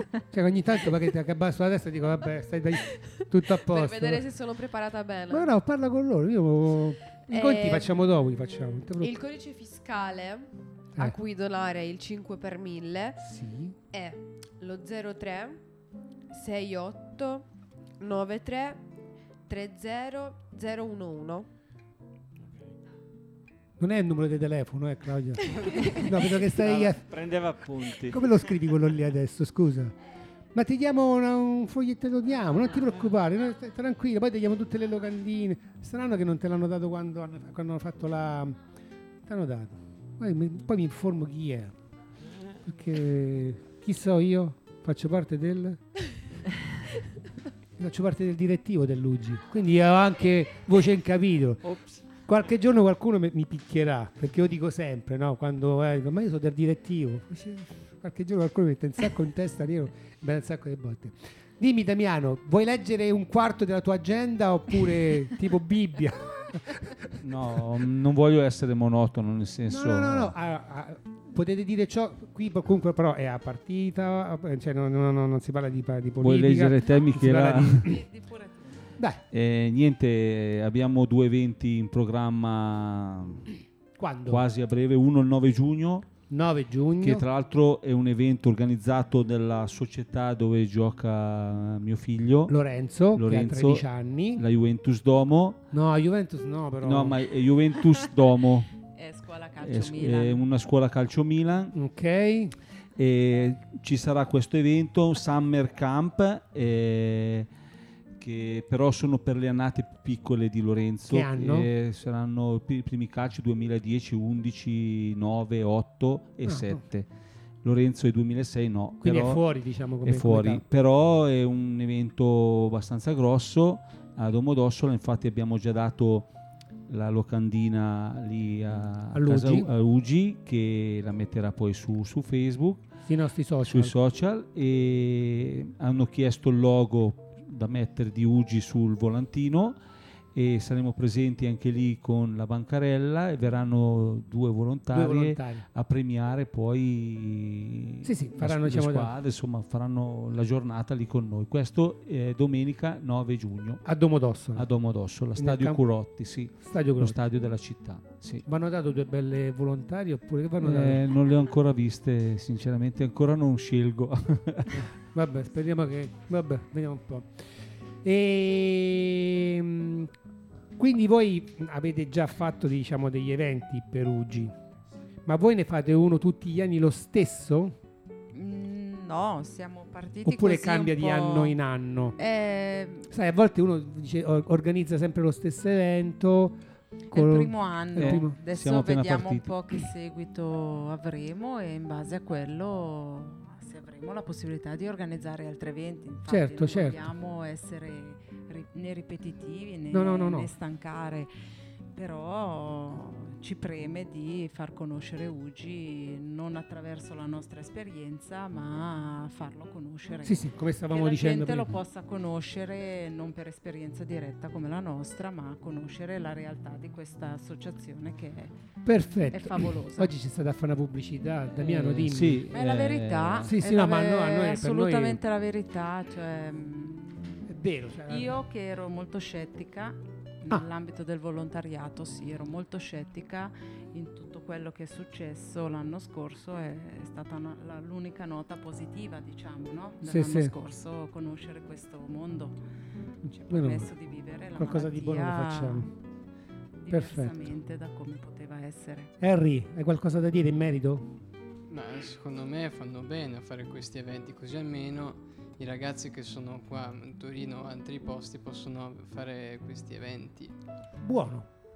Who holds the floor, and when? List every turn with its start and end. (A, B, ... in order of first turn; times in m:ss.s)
0:00.3-0:04.2 A
0:03.5-0:05.5 B
0:05.3-0:09.1 A
0:07.3-0:07.9 B
0:09.0-0:13.2 B
0:13.2-0:13.8 A
0:13.9-0:15.6 B
0:16.3-0:17.5 B
0:18.0-0:18.8 B
0:19.5-0:21.5 B
0:22.4-0:22.7 C
0:23.8-0:27.1 A
0:26.5-0:28.4 C
0:28.0-0:30.0 A
0:30.5-0:38.6 A
0:39.2-0:41.8 A
0:42.6-0:45.8 A
0:47.8-1:07.2 A
0:51.7-0:52.0 C
1:07.2-1:10.3 D
1:09.7-1:18.0 A
1:16.2-1:17.9 D
1:17.8-1:18.8 E
1:19.0-1:19.2 A
1:19.3-1:23.5 D
1:24.0-1:24.4 A
1:24.3-1:26.1 D
1:26.3-1:27.2 A
1:27.0-1:32.6 D
1:32.5-1:34.4 A
1:33.1-1:35.6 D
1:35.7-1:37.2 A
1:36.8-1:38.7 D
1:39.0-1:40.4 E
1:39.6-1:41.8 D
1:41.7-1:42.6 A
1:43.0-1:47.5 D
1:48.2-1:57.1 D
1:51.1-1:51.7 A
1:56.4-1:56.8 A
1:57.6-1:59.4 D
1:59.0-2:00.6 A
2:00.0-2:06.3 D
2:06.9-2:12.8 D
2:09.1-2:09.7 A
2:13.1-2:14.0 A
2:13.6-2:19.8 D
2:20.4-2:33.8 D
2:24.9-2:25.7 A
2:28.0-2:29.1 A
2:33.8-2:34.7 A
2:34.6-2:38.4 D
2:35.4-2:35.8 A
2:36.6-2:37.2 A
2:38.4-2:41.0 A
2:40.6-2:44.9 D
2:44.7-2:47.3 A
2:48.0-2:50.1 A
2:50.8-2:54.6 A
2:55.3-2:57.8 A
2:58.3-3:01.6 E
3:00.2-3:02.2 A
3:02.2-3:03.1 E
3:03.1-3:06.6 A
3:07.1-3:08.4 A
3:07.1-3:21.3 E
3:08.0-3:09.6 D
3:16.3-3:17.0 A
3:19.9-3:20.5 A
3:21.9-3:38.5 E
3:30.2-3:31.8 A
3:38.8-3:42.4 A
3:39.3-3:40.1 E
3:41.5-3:43.6 D
3:42.5-3:47.5 E
3:43.4-3:45.2 A
3:47.5-3:48.4 A
3:48.1-4:02.6 E
4:00.0-4:00.5 A
4:03.3-4:03.9 A
4:03.3-4:05.9 E
4:04.6-4:05.9 A
4:06.8-4:09.1 E
4:06.9-4:07.3 A
4:09.2-4:11.1 A
4:11.7-4:20.5 F
4:21.0-4:21.5 A